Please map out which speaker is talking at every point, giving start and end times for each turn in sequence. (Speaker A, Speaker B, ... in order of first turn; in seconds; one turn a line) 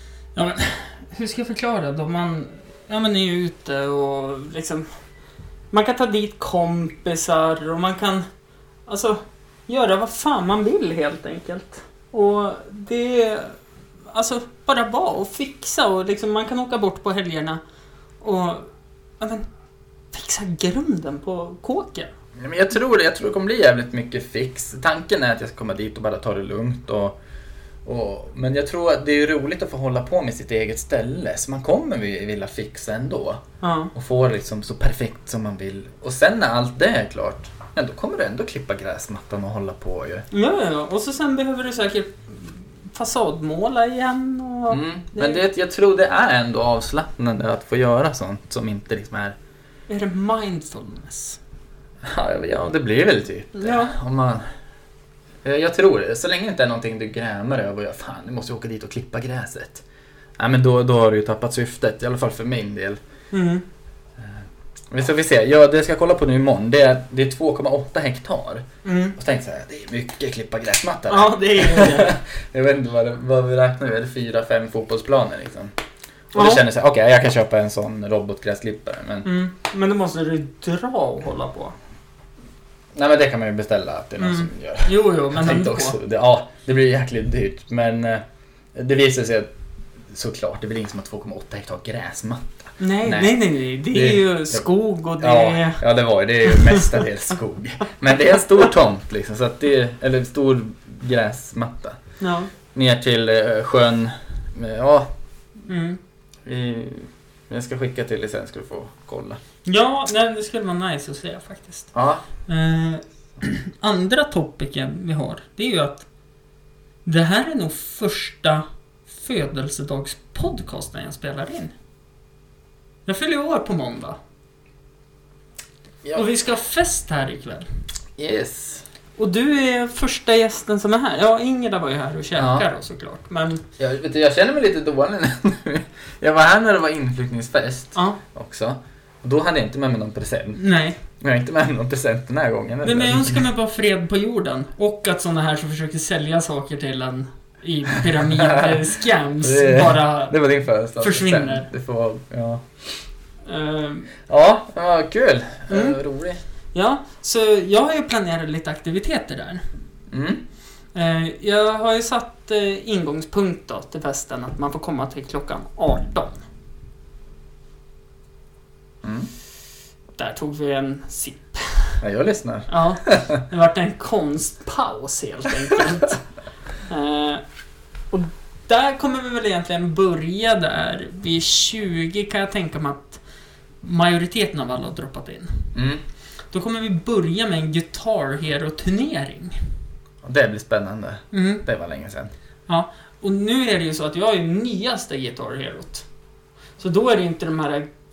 Speaker A: 0.3-4.9
Speaker A: 5.7-8.3
Speaker A: 8.9-13.6
Speaker A: 14.1-17.6
Speaker A: 18.2-19.5
Speaker A: 20.1-22.1
Speaker B: 22.4-27.2
Speaker B: 27.9-33.4
Speaker A: 33.6-33.9
Speaker B: 33.9-40.3
Speaker A: 40.3-45.4
Speaker B: 44.7-49.4
Speaker A: 49.9-51.4
Speaker B: 52.0-54.5
Speaker A: 53.5-54.0
Speaker B: 55.4-59.8
Speaker B: 60.4-63.0
Speaker A: 63.3-63.6
Speaker B: 64.2-75.7
Speaker A: 68.8-69.2
Speaker A: 71.1-72.2
Speaker A: 76.3-76.6
Speaker B: 76.3-79.3
Speaker A: 79.2-81.8
Speaker B: 83.0-88.2
Speaker A: 84.2-86.0
Speaker B: 88.8-89.5
Speaker B: 90.1-94.7
Speaker A: 92.8-95.8
Speaker B: 95.2-102.0
Speaker A: 96.5-96.9
Speaker A: 102.2-102.5
Speaker B: 102.7-105.1
Speaker A: 105.7-106.0
Speaker B: 106.5-109.4
Speaker A: 109.7-111.9
Speaker B: 111.9-112.2
Speaker A: 112.5-116.0
Speaker A: 117.1-121.7
Speaker A: 123.1-124.2
Speaker A: 126.1-127.7
Speaker B: 128.2-128.8
Speaker A: 129.2-133.6
Speaker B: 132.4-132.7
Speaker B: 133.8-140.6
Speaker A: 140.6-141.0
Speaker B: 141.2-143.4
Speaker A: 142.8-150.3
Speaker B: 148.2-152.7
Speaker A: 151.0-151.7
Speaker A: 153.5-154.1
Speaker B: 154.3-156.4
Speaker A: 155.7-156.0
Speaker A: 156.7-159.6
Speaker B: 160.1-160.4
Speaker A: 160.9-166.4
Speaker B: 169.0-169.3
Speaker A: 170.2-172.0
Speaker B: 172.0-173.4
Speaker A: 172.7-176.2
Speaker A: 176.9-177.4
Speaker A: 178.1-183.2
Speaker A: 183.8-185.7
Speaker B: 185.8-186.0
Speaker A: 186.5-189.6
Speaker B: 190.2-192.3
Speaker A: 191.3-191.6
Speaker A: 192.7-196.1
Speaker A: 196.8-197.9